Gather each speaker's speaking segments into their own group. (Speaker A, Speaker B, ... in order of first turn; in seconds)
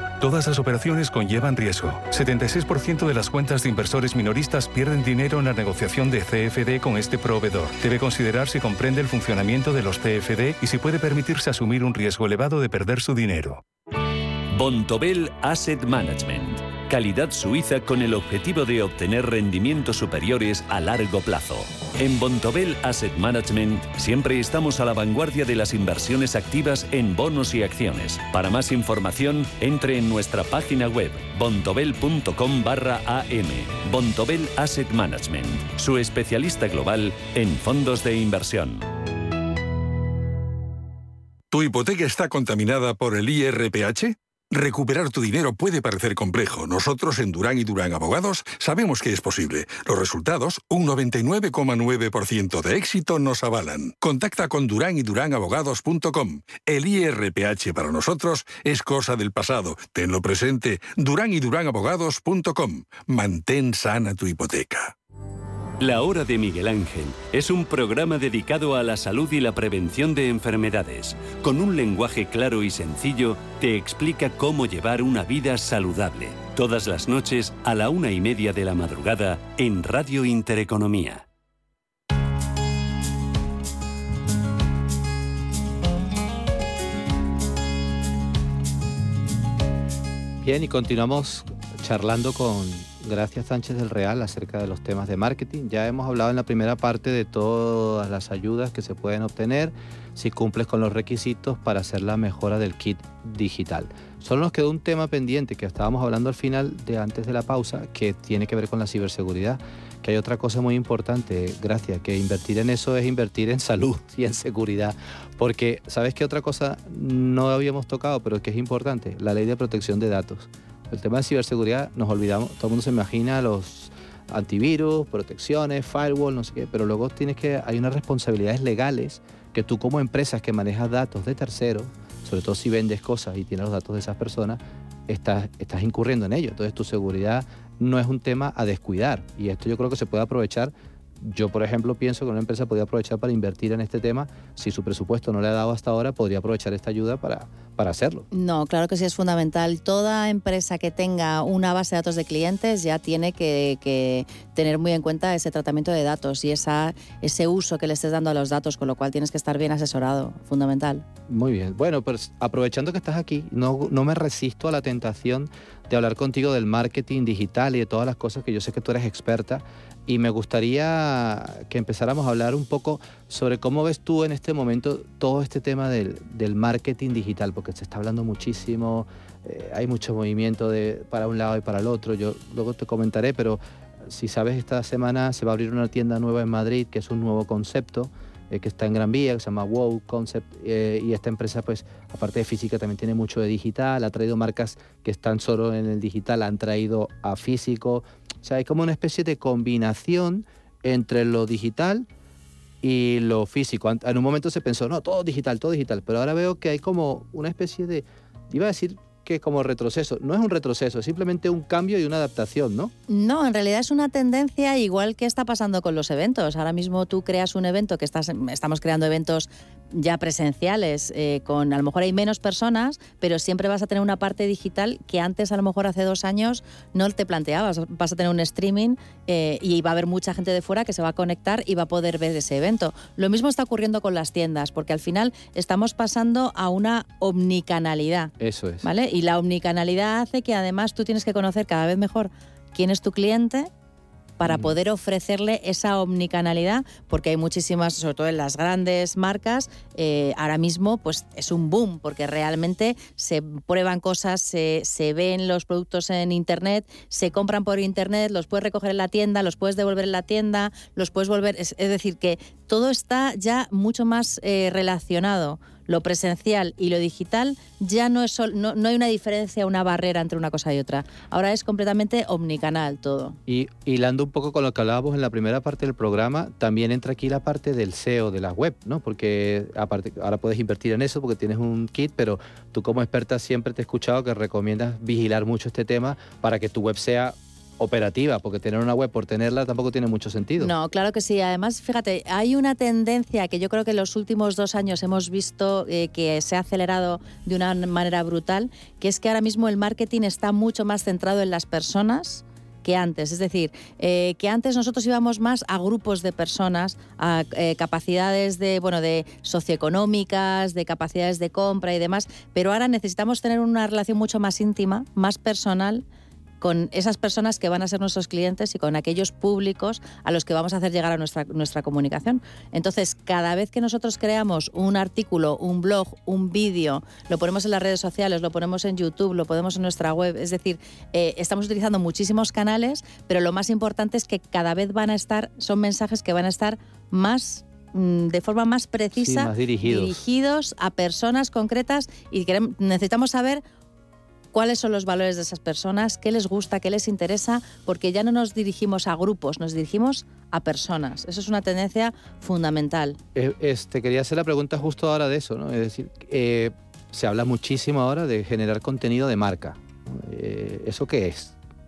Speaker A: 0.2-13.6
Speaker B: 14.5-38.9, 65.8-81.2
Speaker C: 41.5-64.9
Speaker D: 90.4-148.2, 161.3-202.1, 202.8-212.9, 238.4-238.9, 244.4-244.7, 273.5-290.7, 339.1-340.2, 353.3-361.5
Speaker E: 148.3-161.0, 213.1-243.7, 244.4-273.4, 290.6-316.0, 316.6-343.6, 344.5-353.2